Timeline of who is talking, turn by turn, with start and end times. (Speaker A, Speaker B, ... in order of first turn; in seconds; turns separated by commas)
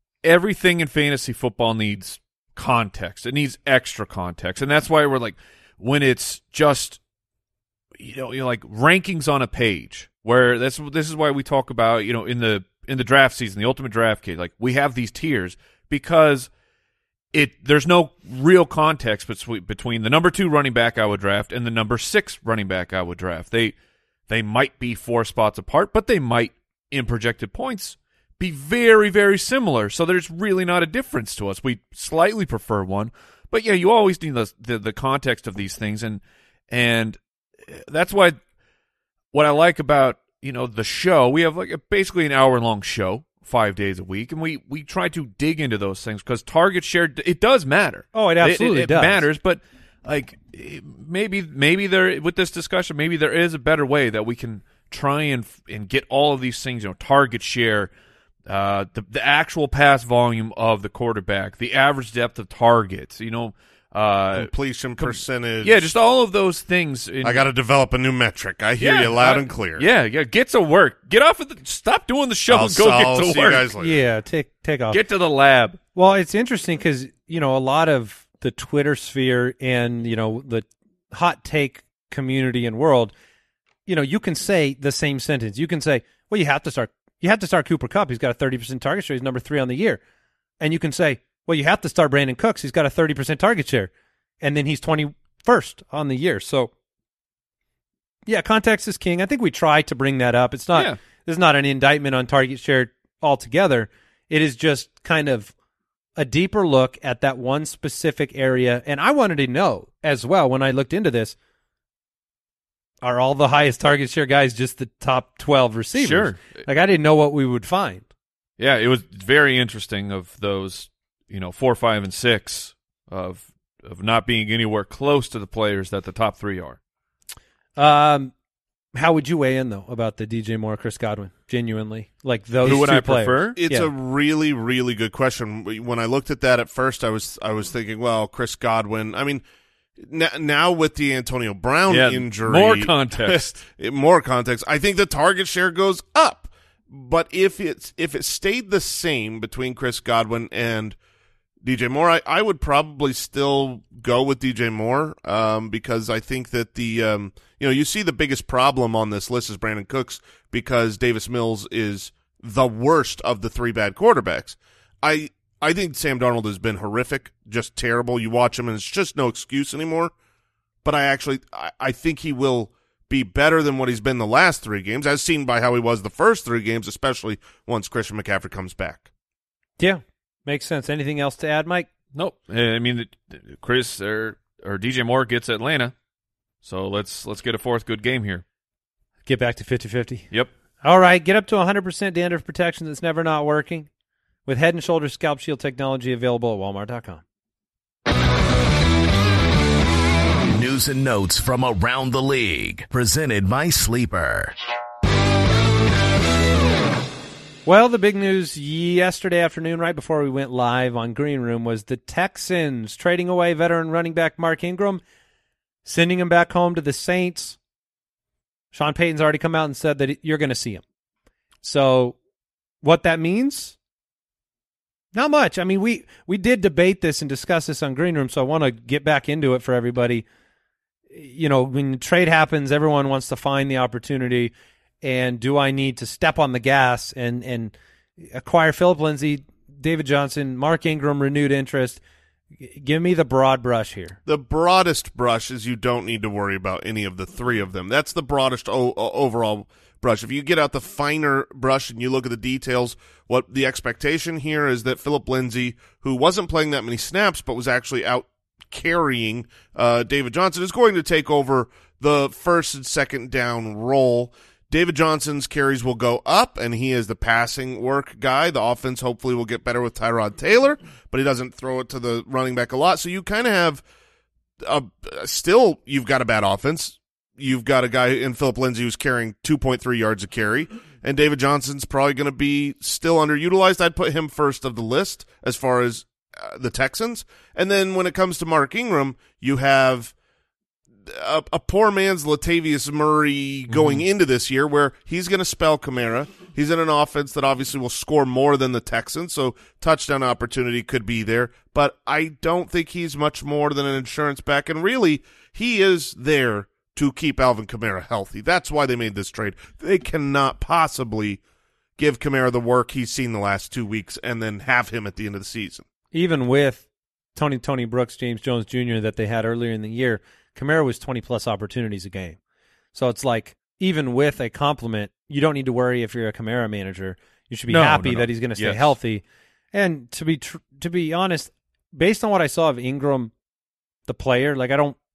Speaker A: 0.2-7.0, Speaker A: 8.0-16.5, Speaker A: 17.3-23.7, Speaker A: 24.3-38.4, Speaker A: 39.3-57.9, Speaker B: 48.1-49.2, Speaker A: 58.5-67.4, Speaker C: 64.3-65.9, Speaker C: 67.2-69.8, Speaker A: 68.8-73.7, Speaker C: 72.5-74.0, Speaker B: 73.8-75.0, Speaker A: 74.9-75.8, Speaker B: 76.0-83.1, Speaker B: 83.8-90.0, Speaker B: 90.6-96.7, Speaker B: 98.2-105.5, Speaker B: 106.2-111.3, Speaker B: 113.0-118.0, Speaker A: 116.0-116.6, Speaker A: 118.6-126.8, Speaker B: 127.8-128.3, Speaker B: 128.9-133.9, Speaker A: 132.6-133.6, Speaker C: 133.6-139.4, Speaker C: 140.0-150.9, Speaker A: 141.9-143.6, Speaker C: 151.6-170.1, Speaker C: 170.8-179.1, Speaker B: 179.8-181.9, Speaker A: 182.1-185.9, Speaker A: 186.6-188.4, Speaker B: 189.2-190.3, Speaker B: 190.8-193.9, Speaker B: 194.4-197.2, Speaker D: 200.5-204.6, Speaker B: 207.6-215.0, Speaker B: 215.8-217.6, Speaker B: 218.7-220.8, Speaker B: 221.6-222.2, Speaker B: 222.8-223.8, Speaker B: 225.1-230.2, Speaker B: 231.1-242.0, Speaker B: 242.6-244.2, Speaker C: 244.2-273.8, Speaker C: 274.6-290.1, Speaker C: 291.1-311.4, Speaker A: 293.7-294.0, Speaker C: 312.0-315.8, Speaker B: 316.1-322.4, Speaker B: 322.9-333.3, Speaker A: 327.7-328.9, Speaker B: 334.1-335.0